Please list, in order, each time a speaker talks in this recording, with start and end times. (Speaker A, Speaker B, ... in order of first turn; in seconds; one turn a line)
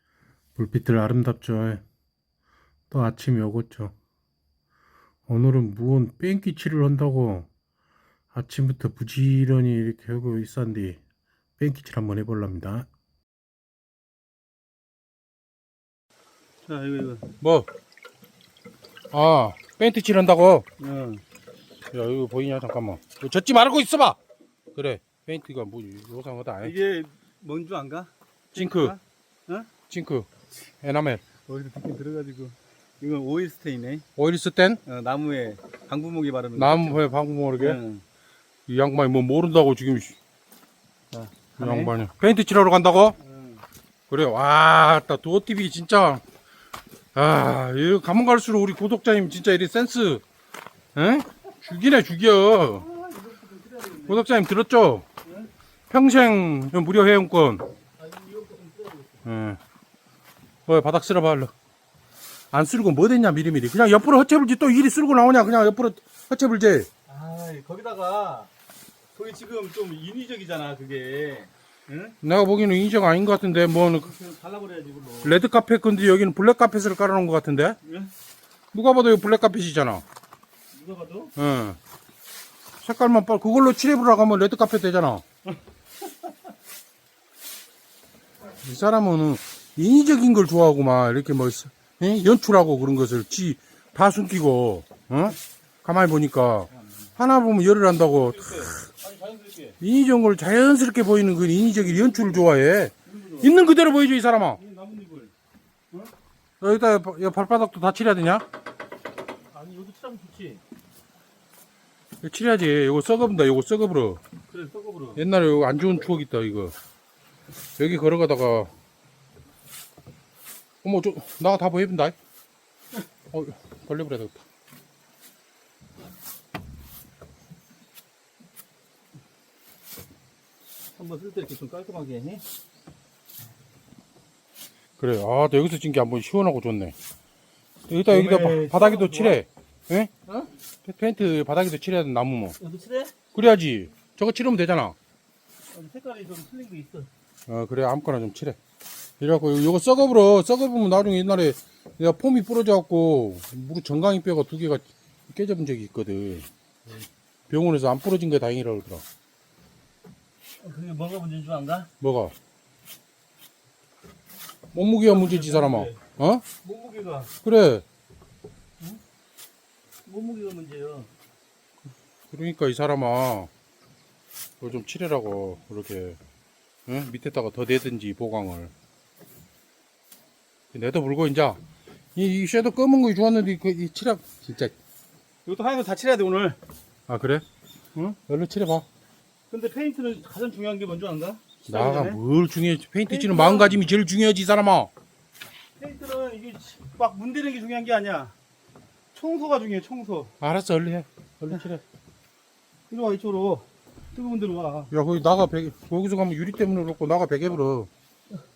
Speaker A: 0.6-1.8
Speaker A: 2.9-3.9
Speaker A: 5.3-7.5
Speaker A: 8.3-11.0
Speaker A: 11.6-12.9
Speaker B: 16.6-17.3
Speaker A: 17.4-17.7
Speaker A: 19.1-20.7
Speaker B: 20.8-21.2
Speaker A: 21.9-24.2
Speaker A: 24.8-26.8
Speaker B: 26.6-29.7
Speaker A: 28.6-29.0
Speaker A: 29.9-30.3
Speaker A: 30.8-31.2
Speaker B: 31.5-34.1
Speaker A: 34.2-34.8
Speaker B: 34.9-37.0
Speaker A: 36.5-37.8
Speaker B: 37.6-38.0
Speaker A: 38.7-40.2
Speaker B: 41.1-41.9
Speaker A: 41.6-43.2
Speaker B: 43.2-43.6
Speaker A: 44.1-46.2
Speaker A: 47.1-50.2
Speaker A: 51.0-52.9
Speaker B: 52.8-54.2
Speaker A: 54.1-55.0
Speaker B: 55.2-55.5
Speaker A: 55.9-57.7
Speaker B: 58.0-59.2
Speaker A: 59.2-59.6
Speaker A: 60.7-61.5
Speaker A: 62.5-66.9
Speaker B: 67.1-68.5
Speaker B: 69.2-72.2
Speaker A: 72.2-74.1
Speaker B: 74.0-75.4
Speaker A: 75.2-77.8
Speaker B: 77.8-78.1
Speaker A: 78.7-80.0
Speaker B: 80.7-81.3
Speaker A: 81.4-81.8
Speaker A: 82.8-85.2
Speaker A: 88.6-98.8
Speaker B: 98.2-99.8
Speaker A: 99.8-104.6
Speaker B: 101.9-102.4
Speaker B: 103.1-103.6
Speaker B: 104.5-105.3
Speaker A: 106.6-108.5
Speaker B: 109.5-110.6
Speaker A: 112.2-114.2
Speaker B: 114.5-115.2
Speaker A: 115.2-116.7
Speaker A: 117.8-118.7
Speaker A: 120.8-122.2
Speaker A: 123.3-124.4
Speaker B: 130.9-132.4
Speaker A: 135.0-136.9
Speaker A: 137.9-140.1
Speaker B: 138.1-139.4
Speaker A: 140.8-142.6
Speaker B: 142.6-143.2
Speaker A: 143.3-145.0
Speaker B: 145.7-147.1
Speaker A: 147.5-148.6
Speaker A: 149.2-156.5
Speaker A: 157.5-159.0
Speaker B: 160.6-161.9
Speaker A: 162.0-162.3
Speaker A: 164.7-166.4
Speaker B: 165.1-166.0
Speaker B: 166.6-167.3
Speaker A: 167.4-167.8
Speaker B: 170.1-171.1
Speaker A: 172.3-173.5
Speaker A: 174.6-176.2
Speaker A: 176.9-178.7
Speaker A: 180.7-181.6
Speaker A: 182.2-184.7
Speaker B: 185.5-186.6
Speaker A: 187.1-187.4
Speaker A: 188.0-188.9
Speaker B: 189.5-192.2
Speaker A: 191.7-194.9
Speaker B: 193.1-193.8
Speaker B: 195.8-198.3
Speaker B: 199.2-200.3
Speaker A: 200.4-201.8
Speaker B: 202.9-204.9
Speaker A: 204.9-207.9